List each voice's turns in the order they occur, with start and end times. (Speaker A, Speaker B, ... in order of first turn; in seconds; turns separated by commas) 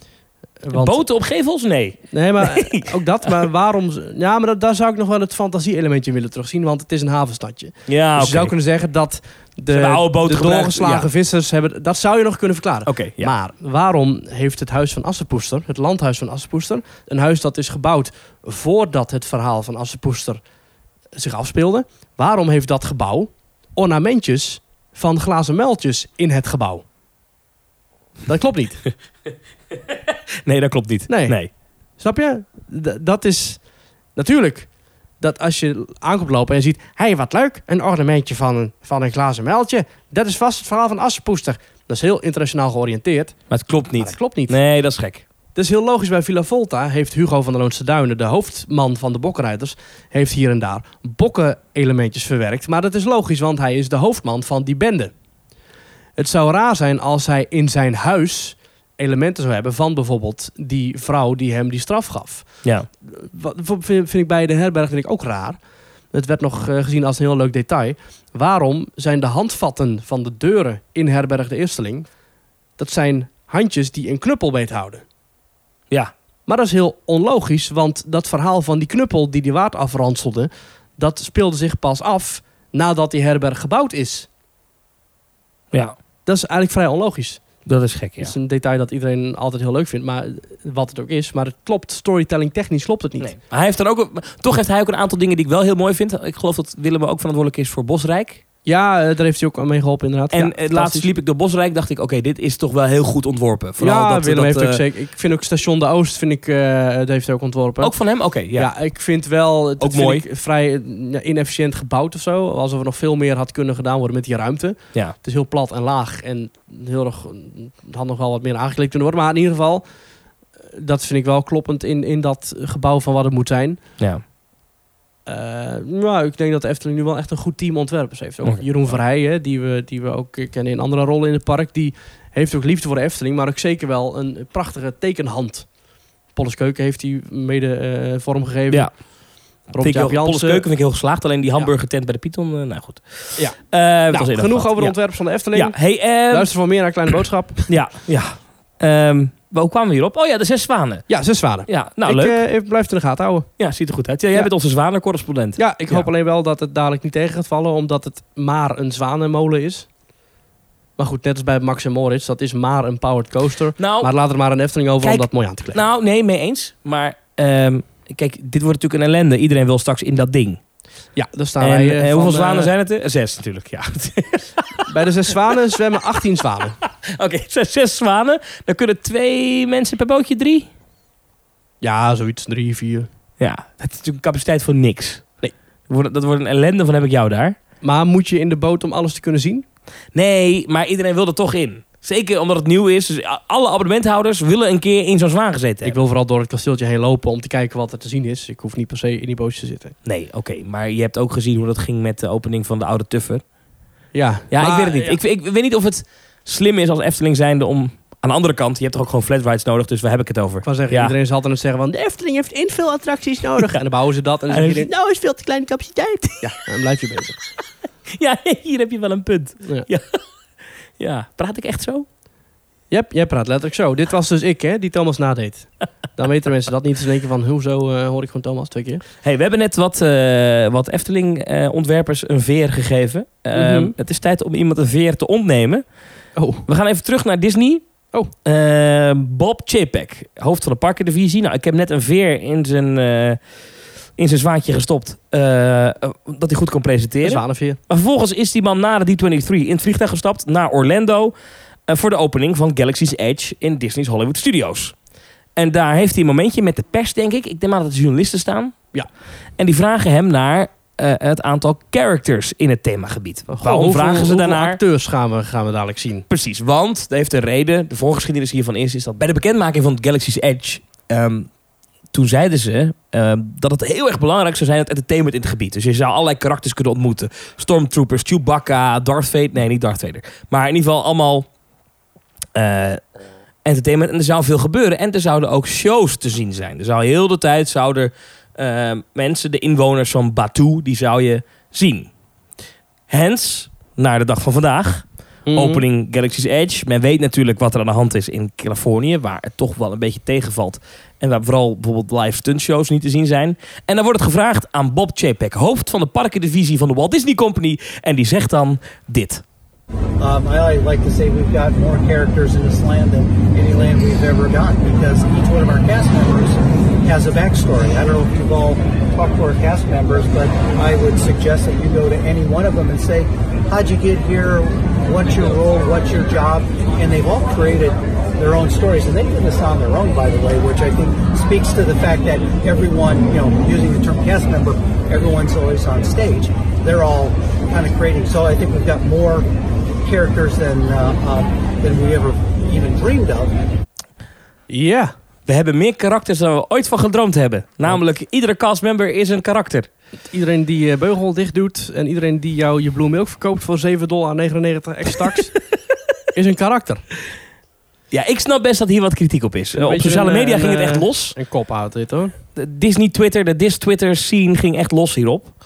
Speaker A: 0.6-1.0, Speaker B: 0.7-2.9, Speaker A: 2.1-20.4, Speaker B: 7.9-8.5, Speaker B: 9.7-11.1, Speaker B: 12.8-13.3, Speaker A: 21.1-26.8, Speaker A: 28.3-28.8, Speaker B: 29.9-31.5, Speaker A: 31.1-31.4, Speaker A: 32.0-33.6, Speaker A: 34.1-34.7, Speaker A: 35.2-43.3, Speaker B: 43.5-45.2, Speaker A: 44.0-44.5, Speaker A: 45.5-55.1, Speaker A: 56.2-62.5, Speaker A: 63.0-65.6, Speaker A: 66.1-72.1, Speaker A: 72.8-75.0, Speaker A: 76.5-84.3, Speaker A: 86.2-87.4, Speaker B: 87.7-88.3, Speaker A: 88.2-93.3, Speaker B: 93.2-98.4, Speaker A: 98.7-101.1, Speaker B: 100.3-104.8, Speaker A: 103.8-107.9, Speaker B: 107.8-108.7, Speaker A: 108.5-119.8, Speaker B: 109.8-110.2, Speaker A: 120.7-123.8, Speaker A: 125.2-135.7, Speaker A: 136.3-138.9, Speaker A: 139.7-140.6, Speaker B: 139.8-145.0, Speaker A: 144.1-145.8, Speaker B: 145.5-146.5, Speaker A: 146.3-147.7, Speaker B: 147.7-151.1, Speaker A: 151.1-153.5, Speaker B: 151.7-152.4, Speaker B: 153.6-156.1, Speaker A: 155.6-159.9, Speaker A: 161.0-165.8, Speaker B: 163.8-164.1, Speaker B: 165.0-170.6, Speaker A: 171.1-172.7, Speaker B: 171.6-174.9, Speaker A: 174.9-176.8, Speaker B: 176.8-180.7, Speaker A: 181.8-183.1, Speaker B: 183.4-185.3, Speaker B: 185.9-187.6, Speaker A: 187.8-189.6, Speaker B: 190.1-196.0, Speaker A: 195.8-199.9, Speaker B: 200.0-203.4, Speaker A: 204.1-205.2, Speaker B: 204.5-211.1, Speaker A: 210.6-217.4, Speaker B: 214.5-214.9, Speaker B: 218.1-220.2, Speaker B: 221.0-222.1, Speaker A: 222.9-229.0, Speaker B: 229.2-235.8, Speaker A: 233.5-233.9, Speaker A: 236.3-236.6, Speaker B: 236.7-237.8, Speaker B: 238.4-243.4, Speaker B: 244.2-251.3, Speaker A: 247.2-247.8, Speaker B: 251.9-254.9, Speaker B: 255.6-258.8, Speaker B: 259.6-264.8, Speaker A: 263.5-266.2, Speaker B: 266.3-271.5, Speaker B: 272.1-281.5, Speaker B: 282.5-283.0, Speaker B: 283.6-292.1, Speaker B: 293.1-309.4, Speaker A: 295.5-295.8, Speaker C: 310.2-339.5, Speaker C: 340.0-343.6, Speaker A: 344.7-345.1, Speaker B: 345.4-349.9, Speaker A: 350.3-355.5, Speaker A: 356.3-357.0, Speaker B: 358.1-361.4, Speaker A: 359.7-362.3, Speaker B: 362.5-365.5